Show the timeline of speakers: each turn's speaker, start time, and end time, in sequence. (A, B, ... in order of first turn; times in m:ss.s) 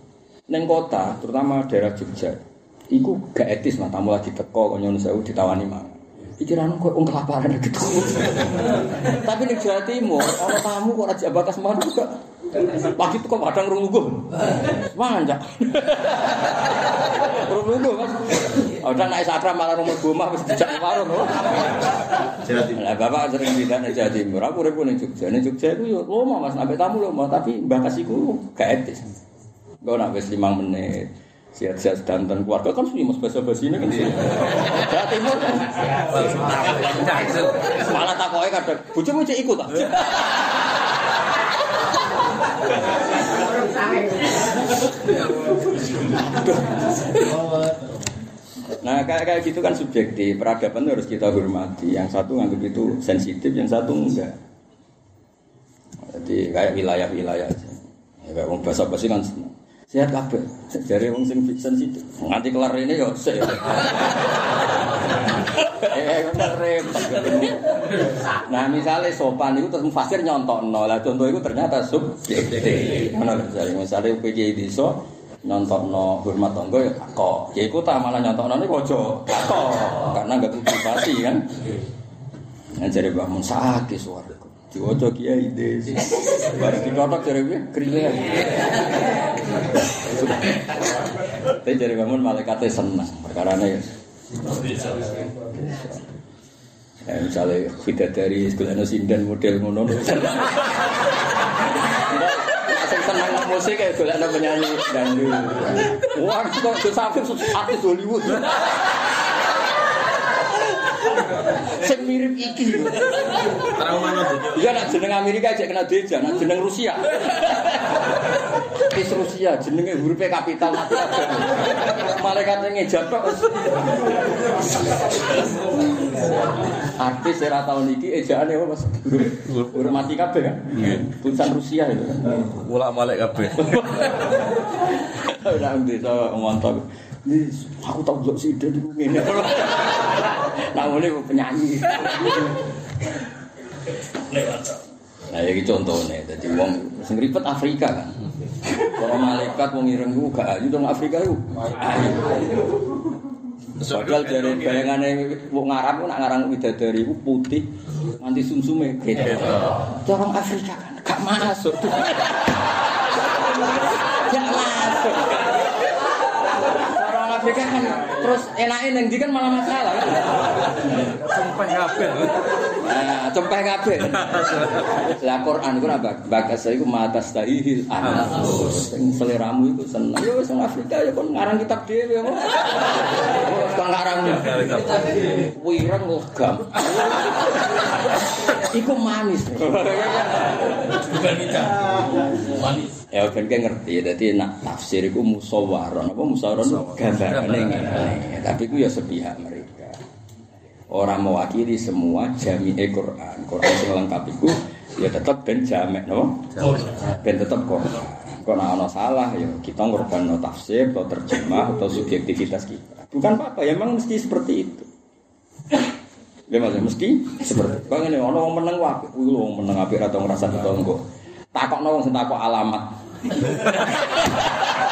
0:00.5-0:12.1 A
0:12.7-0:16.6 A
0:17.2-0:21.8 A
0:22.5-0:29.1 A
0:29.8-0:40.5 A
0:36.1-0:37.5 B
0:46.0-0:47.4 A
0:48.8-0:54.4 A
0:56.1-1:04.0 A
1:05.4-1:21.5 A
1:22.7-1:28.9 A
1:30.0-1:30.4 A
1:31.5-1:33.9 A
1:35.4-1:36.0 A
1:37.0-1:40.8 A
1:41.8-1:48.7 A
1:51.6-1:58.0 A
1:58.7-2:03.8 A
2:07.0-2:12.5 A
2:12.4-2:14.1 B
2:13.7-2:22.5 A
2:25.3-2:32.4 A
2:33.8-2:37.7 A
2:38.2-2:42.6 A
2:44.0-2:45.6 A
2:46.6-2:50.4 A
2:51.2-2:52.4 B
2:52.7-3:11.0 A
3:04.3-3:05.2 B
3:10.9-3:12.9 C
3:13.1-3:20.0 A
3:16.9-3:17.7 B
3:20.9-3:34.9 A
3:36.5-3:41.0 A
3:41.5-3:43.0 A